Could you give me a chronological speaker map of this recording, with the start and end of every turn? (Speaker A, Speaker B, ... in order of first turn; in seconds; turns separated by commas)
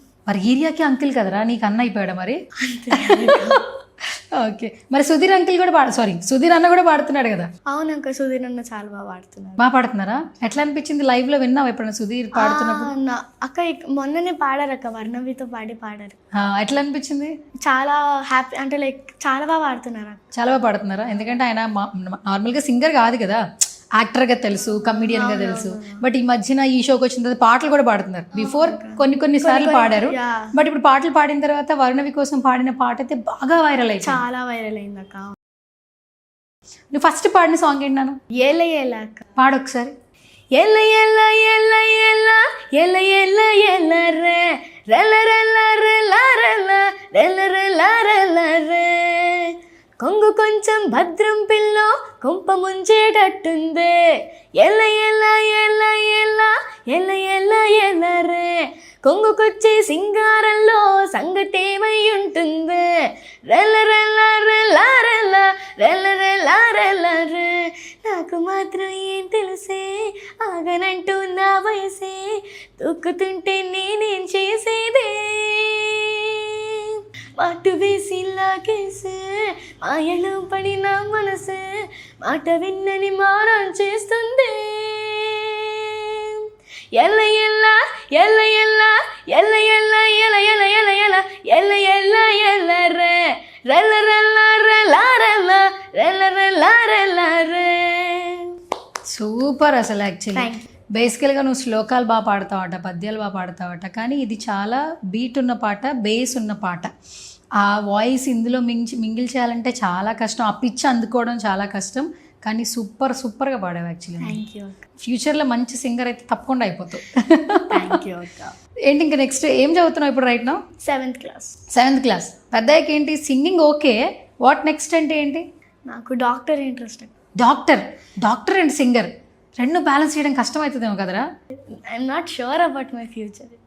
Speaker A: 0.3-2.4, Speaker B: 2.6-3.6, Speaker A: 2.9-7.5, Speaker B: 7.7-9.6, Speaker A: 9.6-12.9, Speaker B: 12.3-16.2, Speaker A: 16.4-17.3, Speaker B: 17.6-20.2, Speaker A: 20.3-23.4, Speaker A: 24.0-34.2, Speaker B: 24.7-26.0, Speaker B: 28.3-30.5, Speaker B: 34.0-35.3, Speaker A: 36.9-38.2, Speaker B: 38.3-39.3, Speaker A: 39.4-39.9, Speaker B: 40.5-54.0, Speaker B: 54.6-98.5, Speaker A: 99.1-106.9, Speaker B: 100.3-100.6, Speaker A: 107.6-114.4, Speaker B: 114.2-114.8, Speaker A: 115.0-118.0, Speaker B: 117.7-118.5, Speaker A: 118.9-120.6, Speaker B: 120.8-121.6, Speaker A: 121.7-125.4, Speaker B: 125.9-127.1, Speaker A: 127.4-131.2, Speaker B: 131.9-133.6